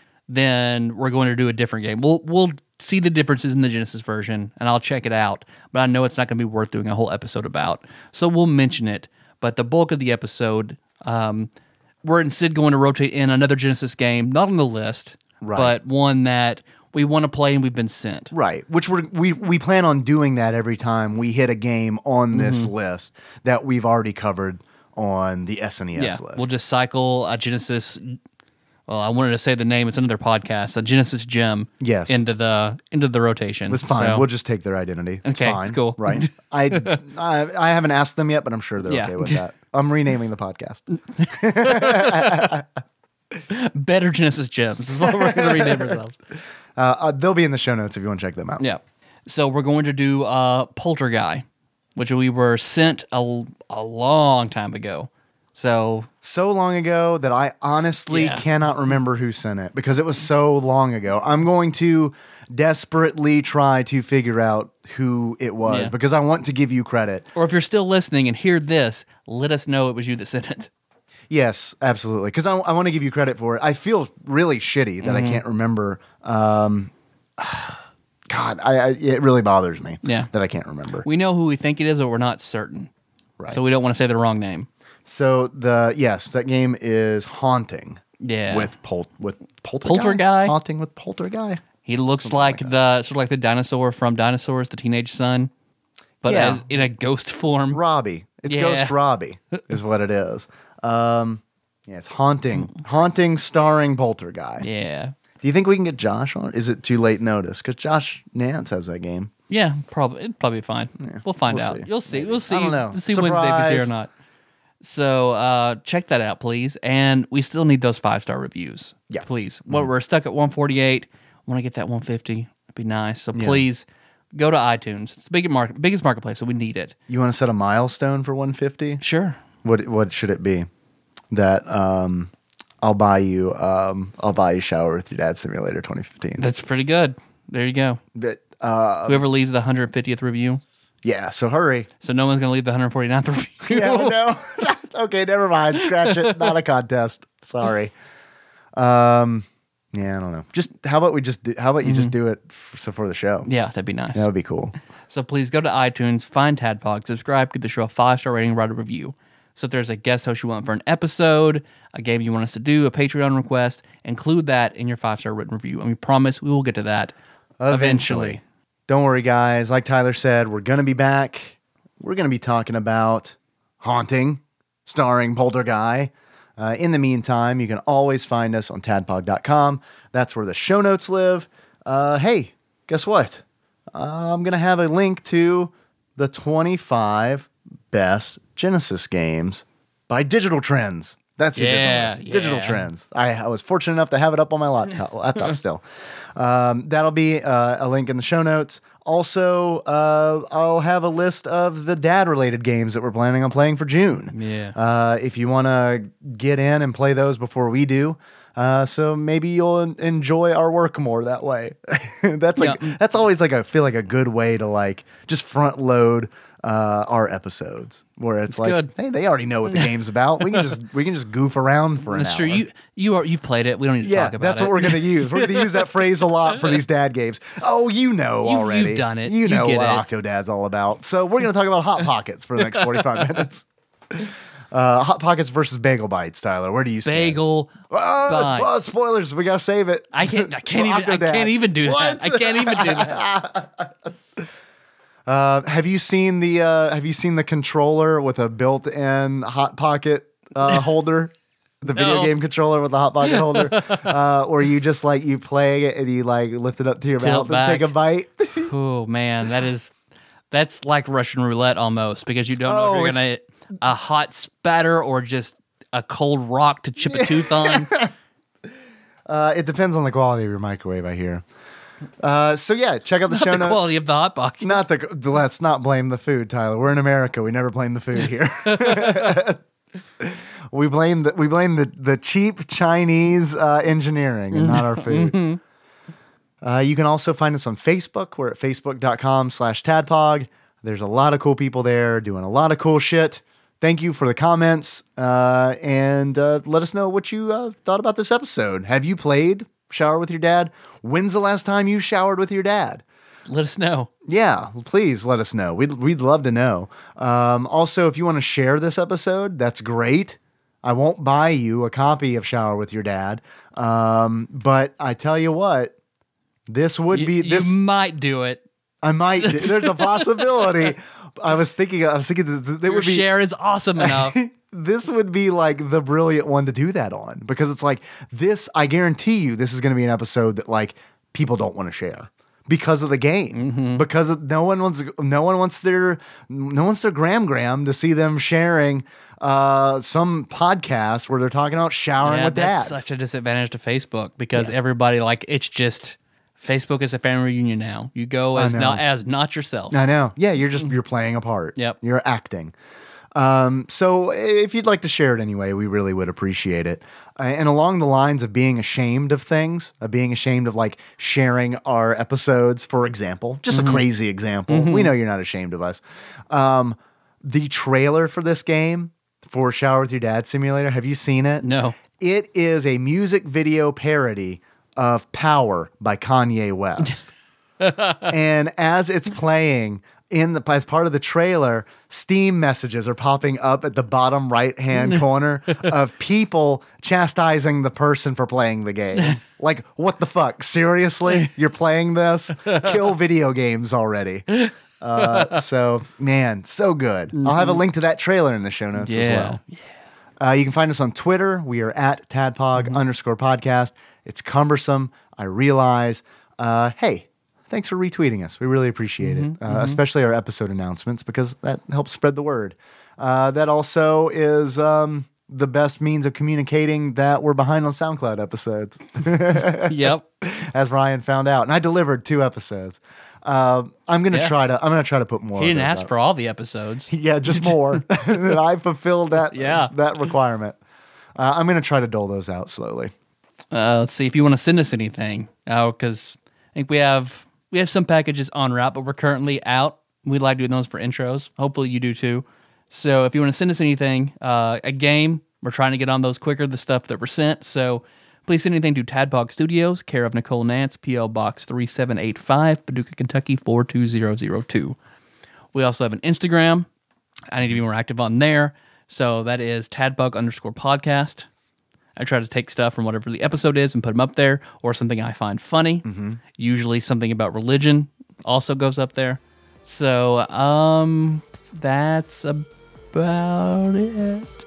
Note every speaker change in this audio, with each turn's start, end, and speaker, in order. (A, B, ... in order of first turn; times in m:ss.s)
0:00.3-0:11.5 A
0:12.0-0:18.3 A
0:15.4-0:15.8 B
0:18.3-0:26.5 B
0:22.3-0:22.7 A
0:26.0-0:28.2 A
0:28.9-0:34.3 A
0:31.8-0:32.2 B
0:33.7-0:42.6 B
0:35.2-0:37.0 A
0:38.8-0:39.4 A
0:41.2-0:42.6 A
0:43.5-0:46.2 A
0:45.0-0:46.0 B
0:46.8-0:48.6 B
0:48.6-0:56.1 A
0:56.2-1:07.3 B
0:58.1-0:58.4 A
1:05.7-1:05.9 A
1:07.4-1:10.7 A
1:11.3-1:21.1 B
1:15.0-1:15.4 A
1:20.0-1:20.3 A
1:21.0-1:22.9 A
1:23.5-1:24.7 A
1:25.1-1:31.6 B
1:28.2-1:28.7 A
1:29.8-1:30.6 A
1:31.8-1:35.5 A
1:32.2-1:32.7 B
1:36.2-1:37.8 A
1:36.3-1:36.6 B
1:37.7-1:44.7 B
1:38.5-1:39.0 A
1:44.6-1:45.1 A
1:45.4-1:49.3 B
1:49.5-1:54.1 A
1:51.0-1:53.9 B
1:54.8-2:07.0 A
1:59.1-1:59.9 B
2:03.3-2:03.6 B
2:07.1-2:09.0 B
2:09.0-2:09.4 A
2:09.6-2:10.7 B
2:11.3-2:12.3 B
2:12.8-2:16.5 B
2:16.4-2:18.0 A
2:18.2-2:19.2 B
2:19.1-2:20.6 A
2:21.0-2:21.9 B
2:22.0-2:24.2 A
2:23.7-2:27.9 B
2:26.3-2:26.5 A
2:28.8-2:33.5 B
2:31.8-2:32.2 A
2:33.5-2:34.3 A
2:34.2-2:34.7 B
2:35.1-2:47.2 A
2:47.6-3:03.4 B
2:47.7-2:48.4 A
3:03.9-3:42.6 B
3:11.6-3:12.9 A
3:24.3-3:24.8 A
3:32.6-3:33.0 A
3:38.5-3:38.9 A
3:40.5-3:40.7 A
3:42.1-3:45.8 A
3:44.0-4:04.4 B
3:48.4-3:50.1 A
3:52.8-3:53.4 A
3:57.0-3:58.8 A
4:00.1-4:03.2 A
4:05.3-4:18.7 B
4:11.9-4:12.3 A
4:13.4-4:14.0 A
4:17.2-4:17.9 A
4:18.6-4:19.9 A
4:20.5-4:27.9 A
4:22.6-4:23.2 B
4:27.1-4:28.1 B
4:29.3-4:31.4 B
4:32.2-4:33.9 B
4:33.3-4:34.9 A
4:34.6-4:39.6 B
4:38.7-4:39.4 A
4:40.2-4:45.4 B
4:44.5-4:45.6 A
4:46.6-5:03.0 B
5:03.5-5:04.1 A
5:04.3-5:15.9 B
5:16.7-5:17.8 B
5:17.1-5:18.6 A
5:19.0-5:23.3 B
5:19.4-5:20.3 A
5:22.9-5:24.4 A
5:24.0-5:43.1 B
5:33.5-5:34.0 A
5:42.2-5:50.0 A
5:48.6-5:49.0 B
5:49.9-5:52.7 B
5:53.3-6:17.3 B
6:03.7-6:04.1 A
6:04.7-6:05.1 A
6:11.6-6:12.0 A
6:17.8-6:18.3 A
6:18.3-6:39.6 B
6:34.6-6:35.5 A
6:37.4-6:37.8 A
6:39.0-6:39.8 A
6:40.4-7:06.1 B
6:49.2-6:50.0 A
6:59.8-7:00.2 A
7:05.6-7:08.4 A
7:07.1-7:10.8 B
7:09.5-7:09.9 A
7:11.4-7:13.1 B
7:13.7-7:35.0 A
7:35.7-7:36.9 A
7:37.5-7:41.5 A
7:42.2-7:54.5 A
7:46.0-7:46.4 B